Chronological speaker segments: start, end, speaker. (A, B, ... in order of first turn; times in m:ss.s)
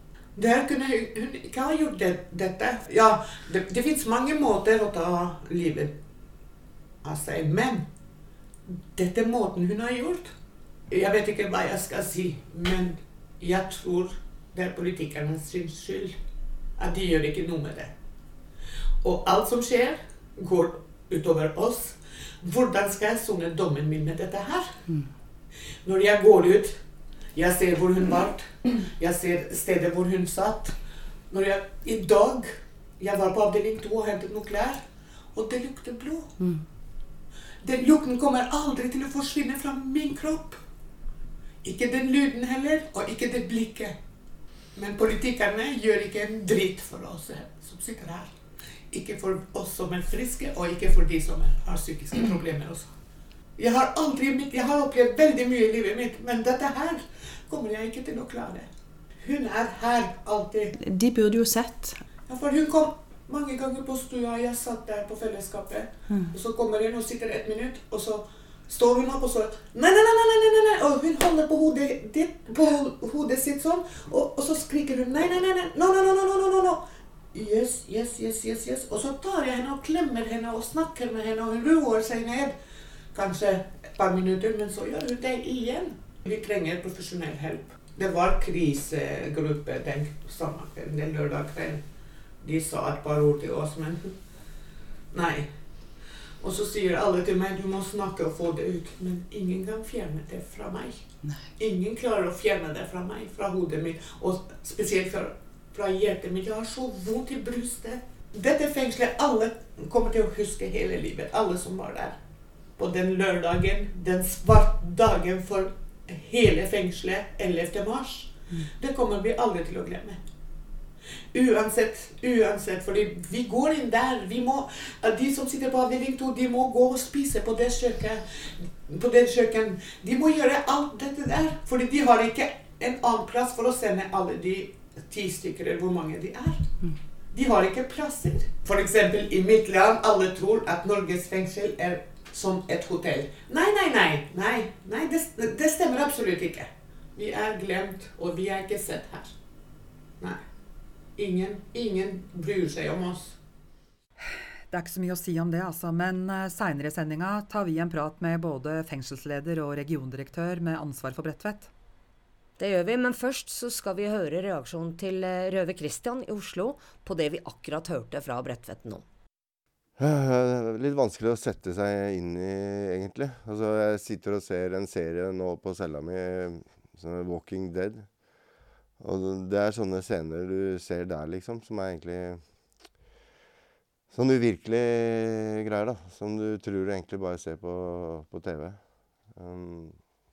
0:00.4-0:06.0 A
0:07.0-0:07.8 A
0:08.6-0:10.3 A
0:10.9-0:16.2 A
0:16.8-0:17.9 A
0:19.0-0:24.8 A
0:25.8-0:26.8 A
0:27.3-0:30.8 A
0:31.3-0:34.8 A
0:35.3-0:36.3 A
0:36.4-0:36.6 B
0:37.6-0:40.6 A
0:41.6-0:43.9 A
0:44.7-0:48.3 A
0:48.9-0:52.9 A
0:53.6-0:58.7 A
0:59.2-1:00.7 A
1:00.8-1:02.0 B
1:02.3-1:22.5 A
1:06.1-1:06.3 B
1:23.1-1:31.8 A
1:32.4-1:34.2 A
1:35.1-1:35.5 A
1:36.4-1:41.0 A
1:41.2-1:41.5 B
1:41.6-1:52.2 A
1:52.8-2:00.2 A
2:01.3-2:16.7 A
2:17.3-2:29.3 A
2:31.2-2:33.4 A
2:34.2-2:41.7 C
2:42.6-2:49.0 D
2:50.0-2:58.2 E
2:59.0-3:02.8 E
3:04.1-3:10.0 E